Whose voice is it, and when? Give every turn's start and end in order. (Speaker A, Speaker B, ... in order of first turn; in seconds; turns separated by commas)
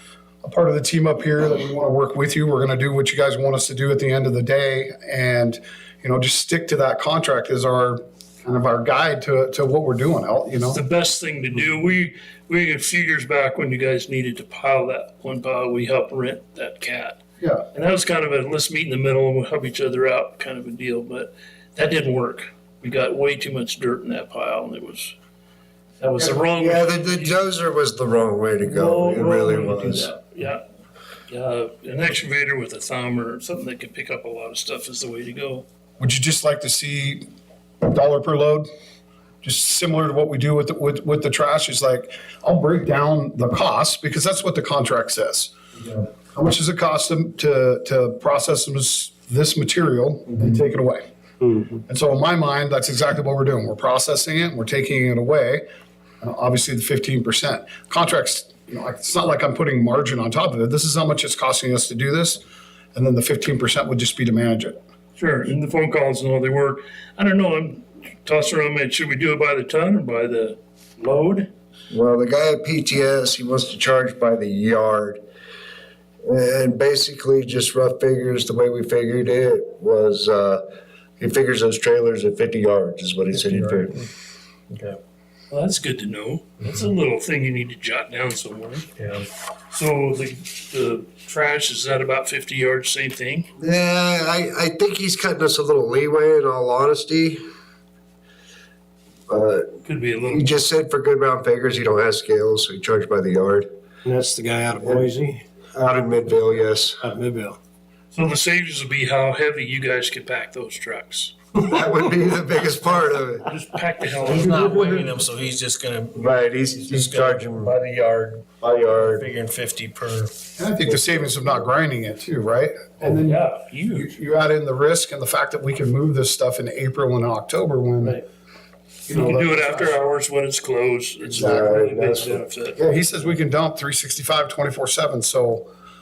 Speaker A: 0.4-10.8, Speaker B: 10.7-17.2, Speaker A: 17.4-17.6, Speaker B: 17.7-25.1, Speaker B: 26.0-27.4, Speaker C: 26.5-30.1, Speaker B: 28.6-30.6, Speaker B: 31.3-35.6, Speaker A: 36.0-37.2, Speaker A: 37.8-38.7, Speaker A: 39.4-45.5, Speaker A: 46.2-51.1, Speaker D: 51.4-51.8, Speaker A: 51.9-55.6, Speaker A: 56.2-62.4, Speaker A: 62.9-64.8, Speaker B: 65.2-71.5, Speaker C: 71.9-75.2, Speaker C: 76.2-80.6, Speaker C: 81.2-84.0, Speaker E: 83.3-84.1, Speaker E: 84.7-85.0, Speaker B: 85.5-88.9, Speaker E: 89.0-89.3, Speaker B: 89.7-93.5, Speaker C: 93.6-97.4, Speaker C: 99.3-103.7, Speaker B: 99.8-100.5, Speaker D: 104.0-105.5, Speaker C: 104.8-105.1, Speaker C: 105.7-107.0, Speaker D: 107.0-107.6, Speaker B: 108.1-111.3, Speaker C: 111.6-113.4, Speaker B: 113.5-115.0, Speaker E: 114.2-120.3, Speaker C: 116.2-117.8, Speaker C: 118.6-119.2, Speaker A: 120.6-128.2, Speaker C: 120.9-121.6, Speaker B: 123.0-124.1, Speaker A: 129.1-130.0, Speaker B: 129.1-132.8, Speaker C: 131.3-132.4, Speaker A: 131.3-131.8, Speaker A: 132.8-135.7